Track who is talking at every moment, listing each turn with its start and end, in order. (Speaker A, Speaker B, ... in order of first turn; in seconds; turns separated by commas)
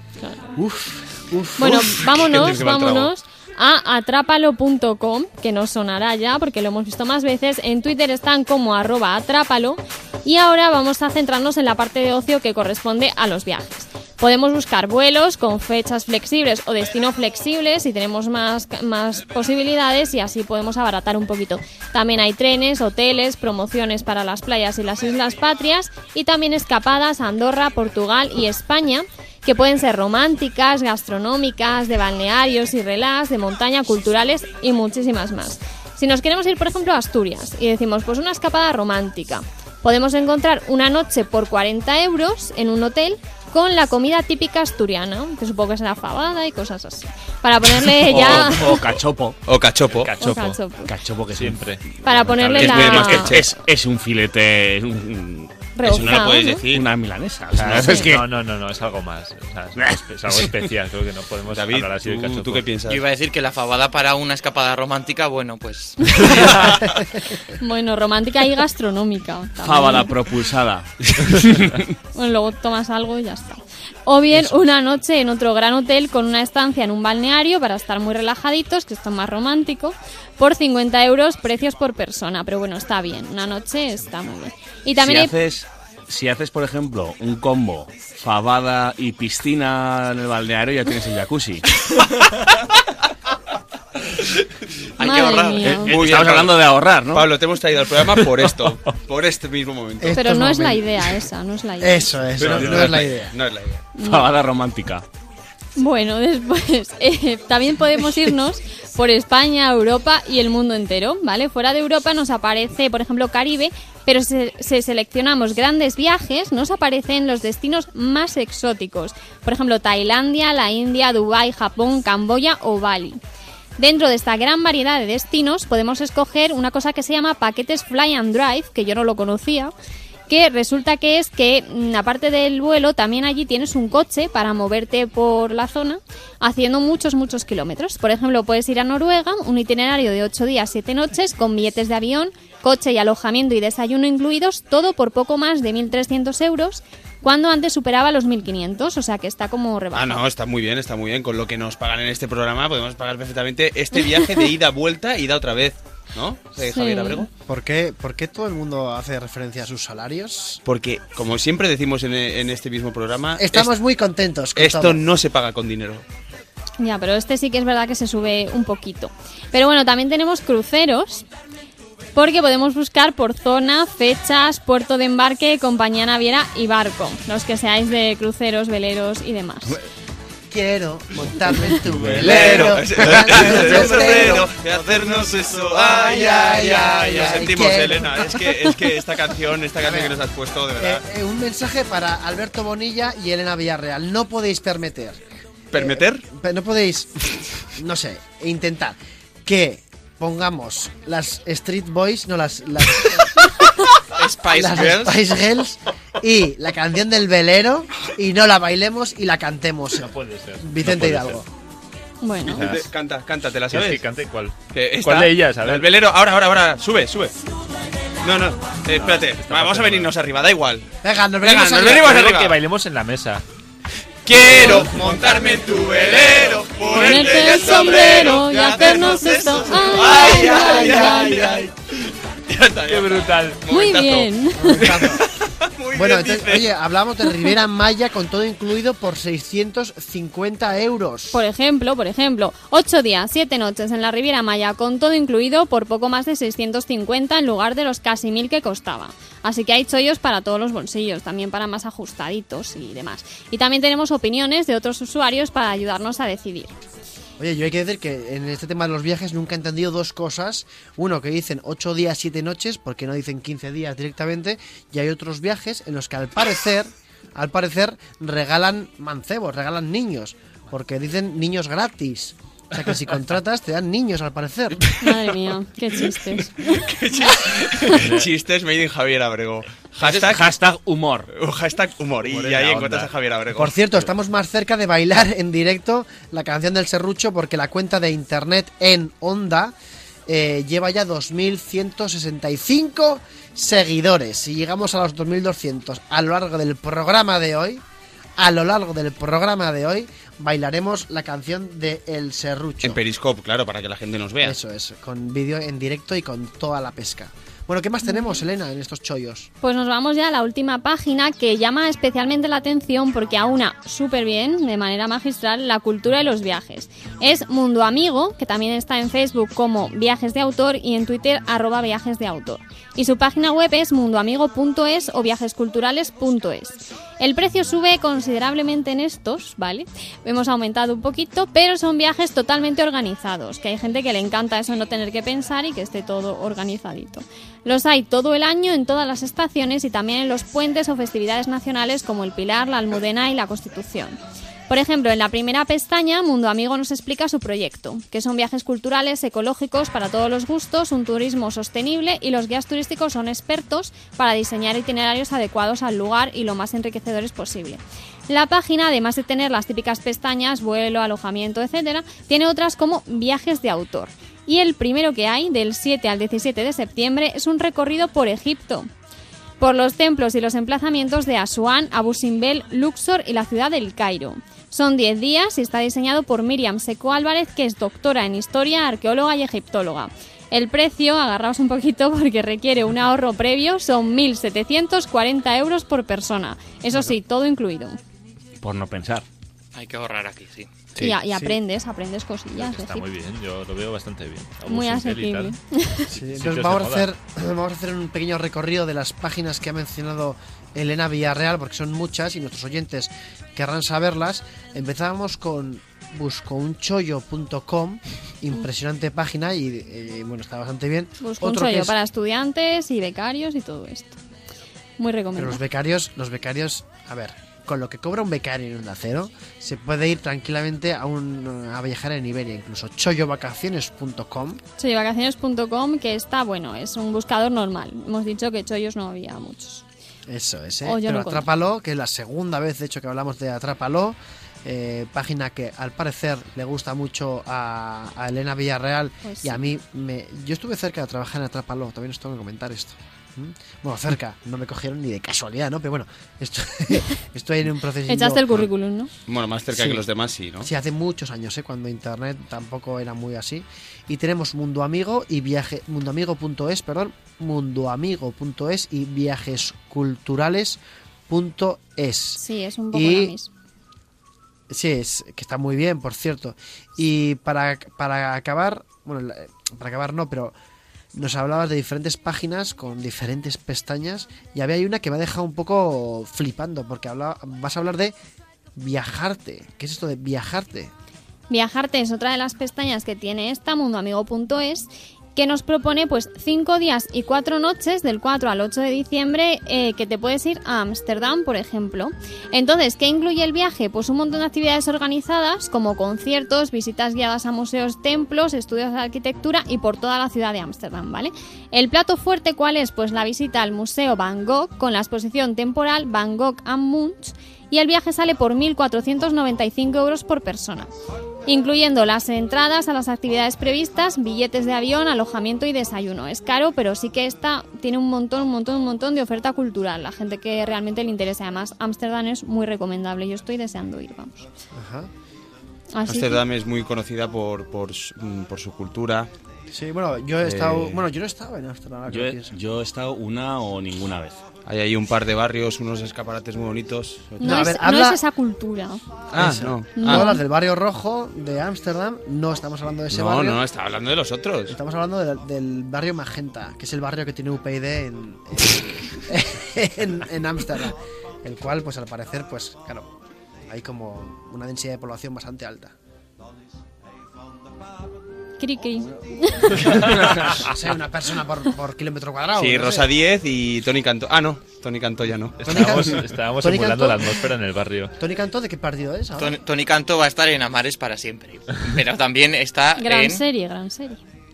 Speaker A: 0.6-1.8, Speaker B: 1.6-48.9, Speaker C: 1.6-3.1, Speaker D: 48.0-49.4, Speaker C: 49.5-50.1, Speaker E: 49.9-50.6, Speaker B: 50.2-50.9, Speaker D: 50.8-51.6, Speaker E: 51.3-52.8, Speaker B: 52.0-53.4, Speaker C: 52.5-53.5, Speaker D: 52.8-55.5, Speaker B: 55.7-56.6, Speaker C: 55.8-56.9, Speaker D: 56.7-58.3, Speaker E: 57.5-62.8, Speaker B: 57.8-58.1, Speaker D: 59.8-60.5, Speaker C: 61.5-63.0, Speaker F: 62.9-66.8, Speaker B: 66.1-70.1, Speaker D: 69.6-71.9, Speaker B: 72.1-85.3, Speaker D: 85.1-91.9, Speaker F: 95.0-96.4, Speaker B: 95.0-95.9, Speaker D: 95.6-97.3, Speaker C: 95.8-96.6, Speaker C: 97.1-100.2, Speaker A: 100.0-100.9, Speaker B: 100.2-102.1, Speaker A: 101.8-103.3, Speaker C: 102.4-103.9, Speaker B: 104.0-104.3, Speaker D: 104.0-105.0, Speaker B: 105.8-123.2, Speaker B: 123.8-129.7, Speaker B: 130.3-150.2, Speaker C: 149.9-157.3, Speaker B: 156.7-157.2, Speaker A: 157.5-160.6, Speaker C: 160.6-163.7, Speaker A: 163.4-165.0, Speaker C: 164.5-166.0, Speaker B: 166.8-171.2, Speaker B: 172.1-179.8, Speaker A: 180.5-184.5, Speaker C: 182.1-191.0, Speaker A: 185.9-188.5, Speaker A: 189.8-190.2, Speaker A: 190.8-195.2, Speaker C: 195.7-196.2, Speaker A: 195.7-203.8, Speaker F: 204.2-205.2, Speaker A: 204.5-211.5, Speaker E: 210.0-211.4, Speaker B: 212.2-212.7, Speaker E: 212.4-212.9, Speaker C: 212.5-214.0, Speaker E: 213.7-215.9, Speaker C: 214.7-217.3, Speaker C: 218.2-220.9, Speaker E: 218.9-220.1, Speaker A: 221.0-222.2, Speaker C: 221.4-222.6, Speaker E: 221.8-223.4, Speaker C: 224.2-236.7, Speaker B: 226.9-231.7, Speaker E: 232.9-233.6, Speaker B: 233.7-234.8, Speaker A: 234.5-235.2, Speaker A: 235.9-241.4, Speaker B: 241.3-256.7, Speaker A: 257.4-274.8, Speaker B: 275.0-276.8, Speaker C: 276.6-280.5, Speaker B: 277.6-278.0, Speaker D: 280.0-281.3, Speaker C: 281.3-283.7, Speaker A: 283.5-289.7, Speaker A: 290.3-297.8, Speaker A: 298.4-303.0, Speaker C: 302.8-304.6, Speaker A: 304.4-309.5, Speaker B: 309.6-344.2, Speaker B: 344.7-368.9, Speaker B: 369.6-388.0, Speaker D: 388.6-389.2, Speaker F: 389.7-390.7, Speaker B: 391.0-393.0, Speaker A: 391.3-391.6, Speaker E: 392.6-395.5, Speaker B: 394.6-396.1, Speaker E: 396.1-397.1, Speaker A: 396.1-411.9, Speaker B: 411.2-414.2, Speaker B: 415.0-415.6, Speaker A: 415.4-424.6, Speaker B: 424.8-429.8, Speaker A: 430.3-448.7, Speaker B: 430.8-431.5, Speaker B: 439.2-439.6, Speaker B: 448.1-449.1, Speaker C: 449.3-450.7, Speaker A: 449.7-450.0, Speaker A: 450.6-462.4, Speaker B: 462.4-463.5, Speaker A: 462.9-463.3, Speaker A: 464.7-470.5, Speaker A: 471.1-478.1, Speaker A: 478.8-480.9, Speaker B: 481.5-510.9, Speaker B: 511.5-524.5, Speaker A: 524.7-525.1, Speaker B: 525.9-526.4, Speaker C: 526.0-529.3, Speaker A: 529.7-532.5, Speaker C: 530.4-531.0, Speaker D: 532.1-534.4, Speaker C: 534.6-537.8, Speaker B: 537.4-539.0, Speaker A: 537.4-538.2, Speaker A: 539.3-543.6, Speaker C: 539.4-540.3, Speaker B: 540.0-540.4, Speaker C: 543.1-544.7, Speaker A: 544.7-553.1, Speaker A: 553.7-555.9, Speaker B: 558.6-559.8, Speaker A: 559.9-563.1, Speaker C: 562.6-565.6, Speaker E: 565.6-568.1, Speaker A: 565.6-567.3, Speaker A: 568.2-569.6, Speaker F: 569.4-573.4, Speaker B: 573.0-574.2